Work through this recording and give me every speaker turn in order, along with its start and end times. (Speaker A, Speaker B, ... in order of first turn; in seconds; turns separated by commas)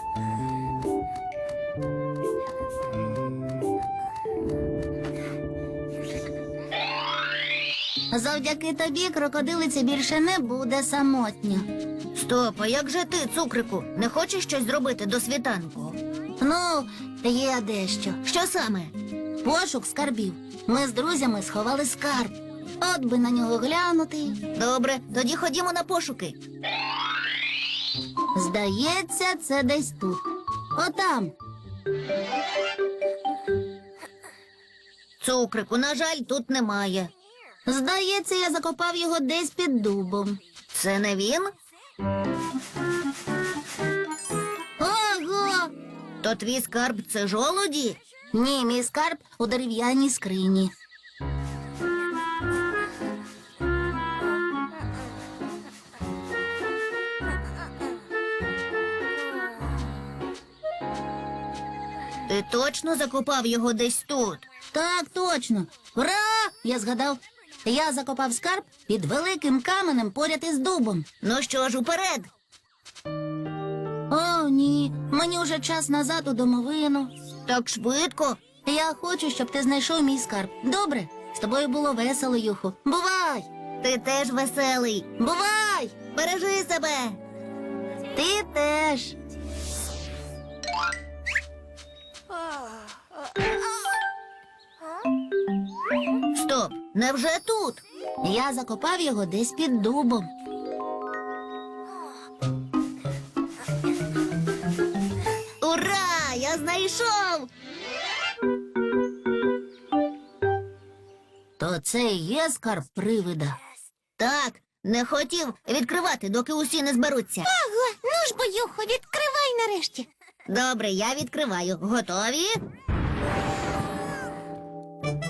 Speaker A: 8.1-11.7, Speaker B: 12.1-16.0, Speaker A: 16.4-18.2, Speaker B: 18.2-18.9, Speaker A: 19.4-24.4, Speaker B: 24.5-26.4, Speaker A: 28.3-31.3, Speaker B: 35.2-37.1, Speaker A: 37.6-40.4, Speaker B: 40.7-41.5, Speaker A: 44.8-45.7, Speaker B: 46.2-48.0, Speaker A: 48.3-50.7, Speaker B: 62.3-64.5, Speaker A: 64.7-71.1, Speaker B: 71.2-72.3, Speaker A: 74.1-77.1, Speaker B: 77.5-78.4, Speaker A: 78.6-83.5, Speaker B: 83.8-85.1, Speaker A: 85.2-85.9, Speaker B: 86.1-87.2, Speaker A: 88.1-89.1, Speaker B: 96.3-97.8, Speaker A: 98.2-100.3, Speaker B: 105.6-107.5, Speaker A: 111.6-113.6, Speaker B: 114.2-117.5, Speaker C: 117.5-120.1, Speaker B: 120.5-122.6